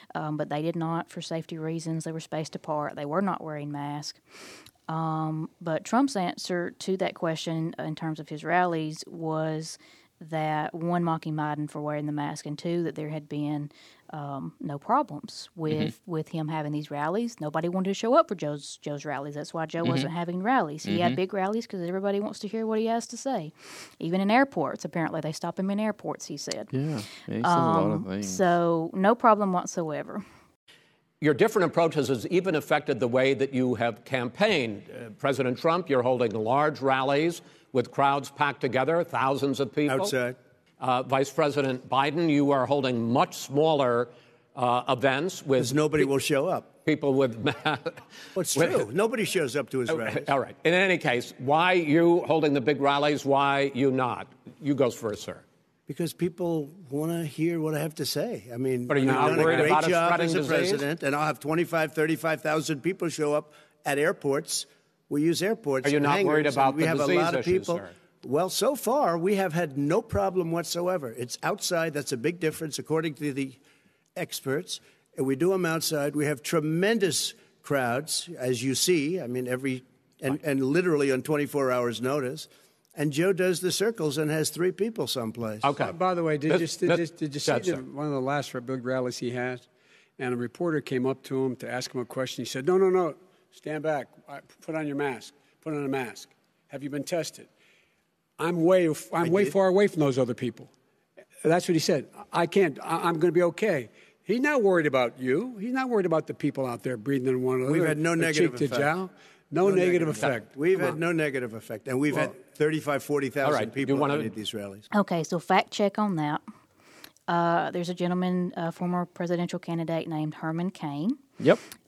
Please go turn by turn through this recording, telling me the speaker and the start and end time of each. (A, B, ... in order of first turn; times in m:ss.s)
0:00.1-0:04.2 A
0:04.9-0:26.7 A
0:19.8-0:20.1 B
0:20.8-0:21.2 B
0:26.7-0:28.4 B
0:27.4-0:30.2 A
0:31.2-0:40.1 C
0:39.9-0:40.4 D
0:40.8-0:46.1 C
0:45.6-0:46.7 D
0:46.8-0:48.0 C
0:48.4-0:50.3 D
0:48.5-0:48.9 C
0:49.9-0:55.4 C
0:55.9-1:13.6 D
0:58.9-1:00.9 C
0:59.0-0:59.8 E
1:05.8-1:07.9 C
1:14.2-1:25.8 D
1:25.6-1:27.8 C
1:25.8-1:29.7 E
1:30.2-1:37.5 E
1:38.4-1:40.7 E
1:39.2-1:39.6 D
1:41.4-1:51.0 E
1:47.6-1:48.9 D
1:49.6-1:54.9 D
1:53.4-1:54.3 C
1:54.9-1:56.4 A
1:57.3-2:01.2 A